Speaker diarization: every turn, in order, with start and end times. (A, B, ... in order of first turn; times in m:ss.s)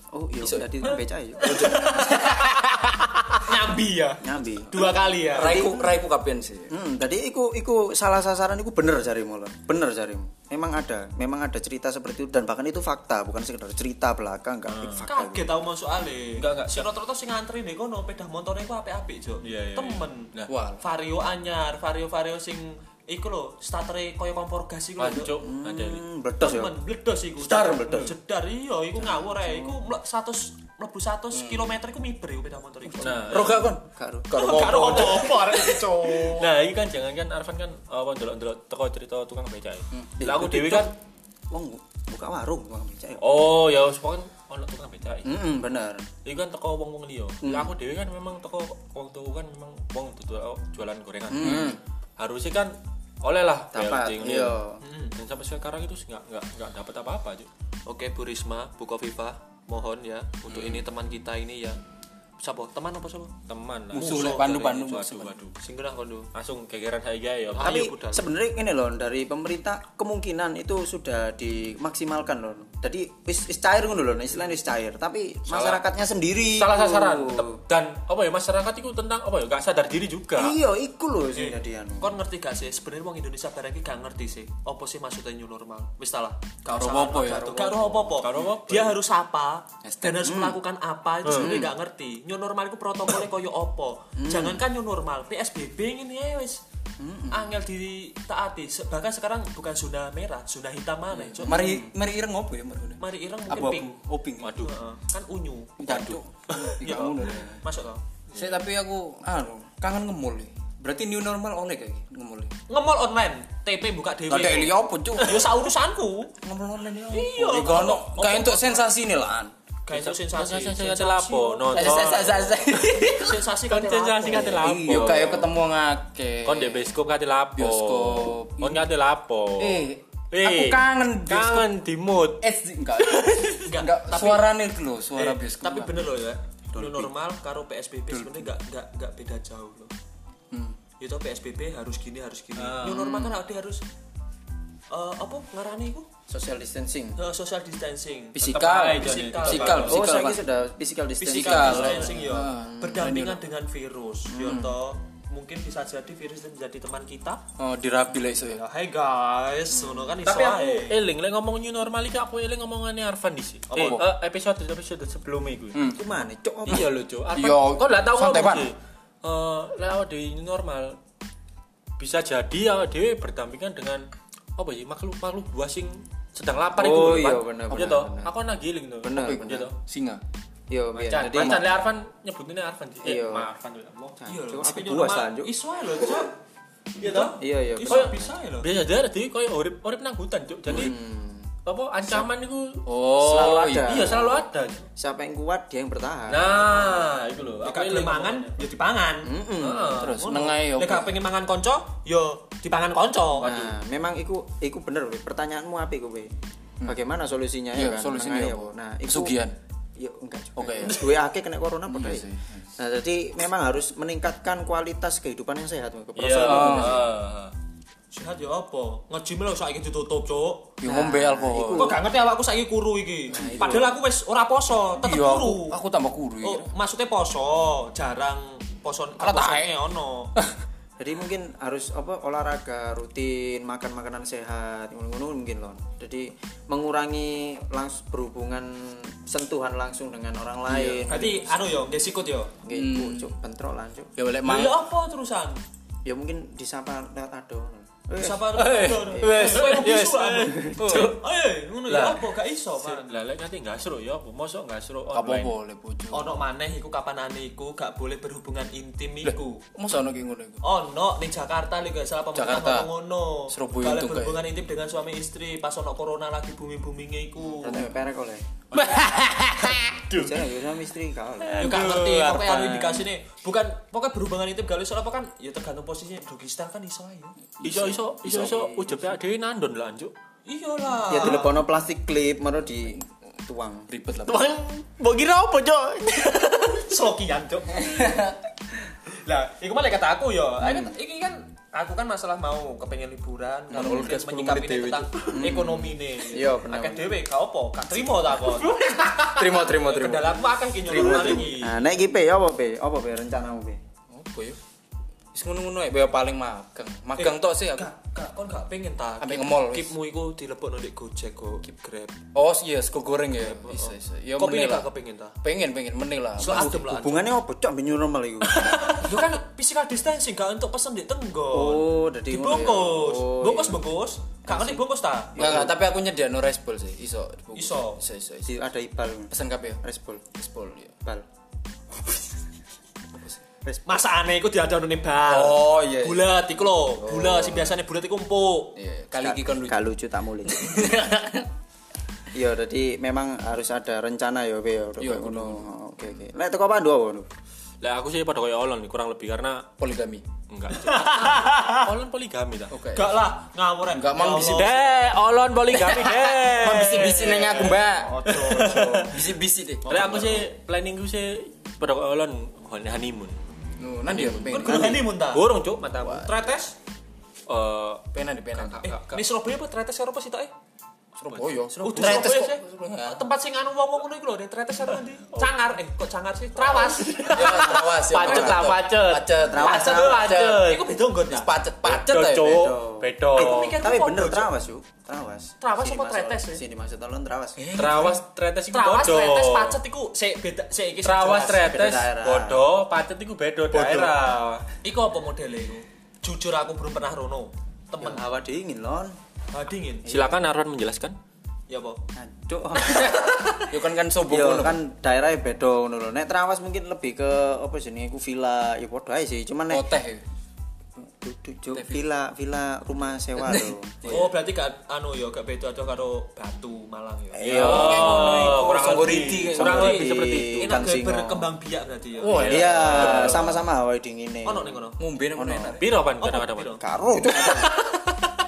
0:00.1-0:02.0 A
0:00.4-0:03.1 B
0:01.4-0:02.6 C
0:03.3-0:05.7 C
0:04.2-0:05.9 A
0:05.3-0:06.7 B
0:06.7-0:15.6 A
0:14.7-0:15.1 D
0:15.1-0:25.4 C
0:16.4-0:16.9 D
0:19.4-0:20.5 D
0:20.5-0:20.8 B
0:25.0-0:26.0 D
0:25.4-0:26.8 A
0:26.4-0:33.5 C
0:27.4-0:28.2 A
0:29.0-0:29.8 A
0:31.3-0:31.8 B
0:33.0-0:33.7 D
0:33.1-0:36.1 B
0:33.8-0:35.0 A
0:34.3-0:36.5 C
0:36.2-0:40.9 D
0:40.2-0:40.9 A
0:41.5-0:43.4 A
0:43.2-0:45.4 D
0:45.2-0:46.1 A
0:46.2-0:54.6 D
0:47.4-0:47.7 A
0:51.3-0:51.8 A
0:51.4-0:51.8 B
0:53.7-0:54.8 A
0:54.8-0:55.2 C
0:55.2-0:57.5 D
0:57.9-1:01.8 C
1:02.4-1:03.3 C
1:03.5-1:05.6 D
1:03.9-1:05.4 B
1:03.9-1:04.5 C
1:05.6-1:06.3 C
1:06.3-1:07.8 D
1:07.5-1:08.2 C
1:07.6-1:17.6 A
1:15.5-1:15.8 D
1:16.5-1:20.6 D
1:20.4-1:22.2 A
1:21.4-1:36.6 C
1:26.7-1:28.4 B
1:28.2-1:29.0 D
1:29.8-1:30.4 B
1:30.2-1:30.6 A
1:31.2-1:31.6 D
1:31.3-1:31.7 A
1:34.2-1:34.6 A
1:37.0-1:37.6 A
1:37.3-1:41.7 C
1:41.4-1:44.6 B
1:41.4-1:41.9 A
1:43.0-1:44.0 C
1:44.4-1:44.7 D
1:44.6-1:48.0 C
1:45.8-1:47.6 B
1:45.9-1:46.2 D
1:48.3-1:52.5 B
1:52.7-1:56.4 C
1:54.3-1:55.5 B
1:56.4-1:59.5 B
1:57.1-1:58.9 C
1:59.9-2:02.5 C
1:59.9-2:02.4 D
2:01.7-2:03.4 B
2:03.0-2:04.7 C
2:03.7-2:05.5 D
2:04.3-2:07.0 B
2:06.4-2:12.4 D
2:07.6-2:08.9 B
2:09.6-2:11.7 B
2:12.4-2:16.0 B
2:13.6-2:14.5 C
2:15.1-2:19.9 C
2:16.8-2:17.1 A
2:18.1-2:18.5 B
2:20.5-2:20.8 B
2:21.0-2:23.8 C
2:22.6-2:23.1 D
2:22.8-2:23.4 A
2:24.9-2:26.1 C
2:26.3-2:27.2 A
2:27.2-2:30.2 C
2:28.4-2:30.4 B
2:28.4-2:30.2 D
2:29.7-2:32.4 A
2:31.2-2:37.4 C
2:31.2-2:33.5 B
2:34.3-2:34.7 A
2:37.6-2:38.6 B
2:38.5-2:41.0 C
2:39.7-2:40.2 A
2:40.2-2:45.8 D
2:43.7-2:44.0 C
2:43.8-2:44.0 B
2:45.7-2:46.0 B
2:45.8-2:46.9 A
2:46.6-2:51.0 D
2:46.7-2:48.7 B
2:52.0-2:54.0 D
2:54.6-2:59.7 D
2:56.8-2:58.3 A
2:59.0-2:59.7 A
2:59.1-3:00.2 B
3:00.7-3:01.7 A
3:00.9-3:04.2 D
3:01.2-3:01.7 B
3:03.0-3:03.5 A
3:04.2-3:05.5 A
3:04.2-3:06.3 C
3:07.0-3:11.0 D
3:07.0-3:08.7 C
3:07.4-3:08.3 A
3:10.7-3:11.5 A
3:11.6-3:14.9 D
3:12.8-3:14.2 B
3:13.2-3:14.4 A
3:15.0-3:17.1 A
3:16.3-3:18.6 D
3:17.6-3:23.7 C
3:19.2-3:20.1 A
3:19.6-3:20.2 D
3:19.8-3:21.2 B
3:23.4-3:29.4 A
3:27.7-3:29.6 B
3:30.0-3:37.1 A
3:30.6-3:31.1 B
3:31.9-3:32.7 B
3:36.2-3:37.5 D
3:36.3-3:37.1 B
3:38.1-3:40.8 C
3:40.8-3:42.0 B
3:40.8-3:42.0 A
3:41.7-3:45.8 C
3:43.3-3:44.0 A
3:43.3-3:43.9 B
3:45.0-3:46.7 B
3:46.4-3:50.3 C
3:49.2-3:49.7 B
3:51.0-4:01.6 A
4:00.7-4:01.2 B
4:01.1-4:02.5 C
4:02.6-4:04.1 A
4:02.7-4:03.3 B
4:04.2-4:04.8 B
4:04.4-4:05.6 C
4:06.0-4:09.8 A
4:08.2-4:13.2 C
4:08.5-4:11.2 D
4:10.6-4:11.0 A
4:10.8-4:11.2 B
4:11.9-4:12.2 D
4:12.8-4:15.5 D
4:15.1-4:16.4 B
4:16.1-4:19.6 C
4:19.2-4:20.6 B
4:20.6-4:27.9 C
4:22.3-4:22.9 B
4:23.5-4:24.4 B
4:27.5-4:28.4 A
4:28.7-4:30.4 D
4:28.8-4:30.0 B
4:30.1-4:31.8 A
4:31.4-4:33.0 D
4:31.6-4:37.4 C
4:37.6-4:40.1 D
4:37.7-4:39.2 A
4:37.7-4:37.9 B
4:40.5-4:41.6 C
4:41.1-4:43.9 A
4:43.9-4:44.5 B
4:44.2-4:46.9 D
4:46.8-4:48.1 C
4:47.7-4:48.4 B
4:49.1-5:01.8 C
4:50.6-4:50.9 A
4:53.7-4:54.1 A
4:53.7-4:55.3 B
4:55.3-4:57.2 A
4:59.1-5:01.5 B
5:00.9-5:03.8 A
5:01.0-5:01.4 D
5:04.1-5:04.6 B
5:05.3-5:07.9 B
5:07.2-5:12.2 C
5:09.2-5:10.0 B
5:12.3-5:14.9 B
5:13.4-5:15.4 C
5:15.4-5:16.8 B
5:16.4-5:17.3 C
5:16.4-5:19.1 A
5:18.6-5:25.7 C
5:21.5-5:23.8 A
5:24.5-5:24.8 A
5:25.4-5:28.6 B
5:25.4-5:25.7 A
5:27.5-5:28.0 C
5:28.5-5:30.3 A
5:29.3-5:29.8 B
5:30.3-5:31.0 B
5:33.6-5:34.0 A
5:33.9-5:38.8 C
5:35.2-5:37.8 B
5:38.8-5:41.5 B
5:39.2-5:40.8 A
5:42.3-5:47.3 A
5:45.0-5:45.7 B
5:47.8-5:49.7 D
5:49.8-5:50.3 B
5:50.5-5:52.8 D
5:50.7-5:51.9 C
5:52.7-5:53.2 B
5:52.9-5:54.8 C
5:53.9-5:54.8 B
5:54.4-5:57.8 D
5:55.7-6:00.5 B
5:57.6-5:59.2 C
5:58.3-5:59.1 D
5:59.9-6:03.4 D
6:03.8-6:05.0 B
6:04.1-6:06.3 D
6:04.5-6:05.5 C
6:06.0-6:06.5 B
6:06.0-6:06.7 C
6:07.5-6:09.2 D
6:08.1-6:08.8 B
6:08.8-6:10.5 C
6:11.2-6:12.2 D
6:11.2-6:13.2 B
6:11.8-6:17.8 C
6:16.6-6:20.8 D
6:17.3-6:22.7 B
6:18.3-6:18.6 A
6:19.4-6:20.2 A
6:19.6-6:21.5 C
6:21.8-6:23.8 D
6:22.5-6:27.6 A
6:23.4-6:24.5 C
6:25.6-6:26.6 C
6:27.6-6:28.2 C
6:27.7-6:29.8 D
6:28.7-6:31.7 C
6:31.0-6:34.6 D
6:31.5-6:32.6 A
6:33.7-6:34.1 A
6:34.8-6:38.2 C
6:38.0-6:39.2 A
6:39.5-6:40.1 C
6:40.0-6:41.2 D
6:41.7-6:42.0 C
6:42.2-6:43.6 A
6:43.7-6:44.8 B
6:44.3-6:49.8 A
6:49.7-6:50.2 B
6:51.1-6:54.0 A
6:51.7-6:52.0 B
6:53.4-6:54.3 B
6:54.0-6:59.8 C
6:57.3-6:59.0 A
6:57.4-7:00.8 D
6:57.4-7:00.1 B
6:59.5-7:01.5 A
7:00.6-7:03.1 C
7:02.2-7:03.6 B
7:02.2-7:03.6 D
7:02.3-7:04.8 A
7:04.4-7:05.0 C
7:05.0-7:05.9 B
7:05.4-7:05.8 A
7:05.8-7:08.0 D
7:06.2-7:06.8 C
7:06.8-7:07.8 A
7:07.4-7:07.7 B